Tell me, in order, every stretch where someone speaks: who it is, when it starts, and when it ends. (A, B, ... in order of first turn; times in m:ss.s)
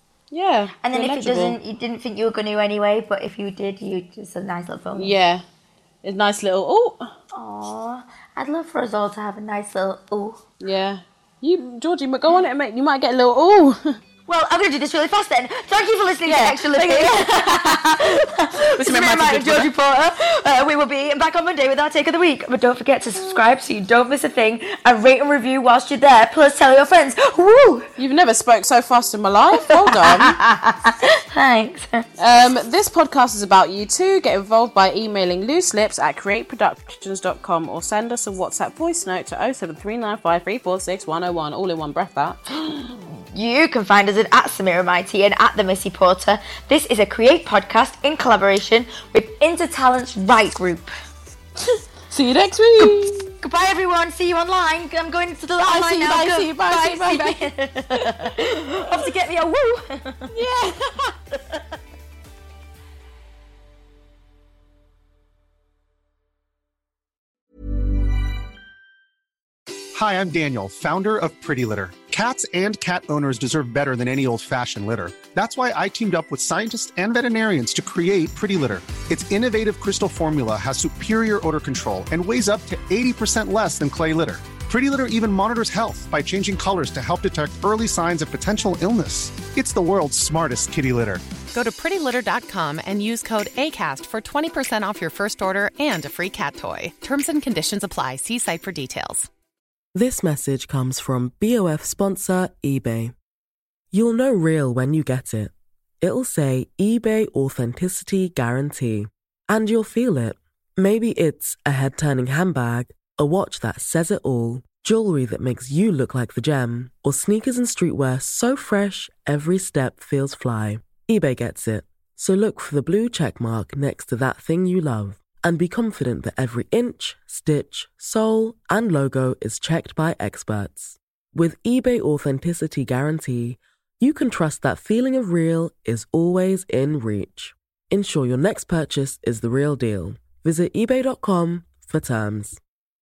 0:00.3-0:01.6 A
0:00.8-0:05.1 B
0:04.9-0:05.4 A
0:06.0-0:07.1 A
0:07.3-0:10.4 B
0:10.6-0:14.0 A
0:14.2-0:27.9 B
0:16.2-0:18.0 A
0:18.8-0:19.7 A
0:28.0-0:30.4 A
0:29.8-0:32.0 B
0:32.2-0:42.5 A
0:43.3-0:50.9 B
0:52.1-0:53.3 A
0:52.8-1:00.3 B
0:55.6-0:58.3 A
1:00.3-1:01.1 A
1:09.9-1:31.2 C
1:31.5-1:39.3 D
1:39.9-1:43.1 E
1:43.9-2:22.6 E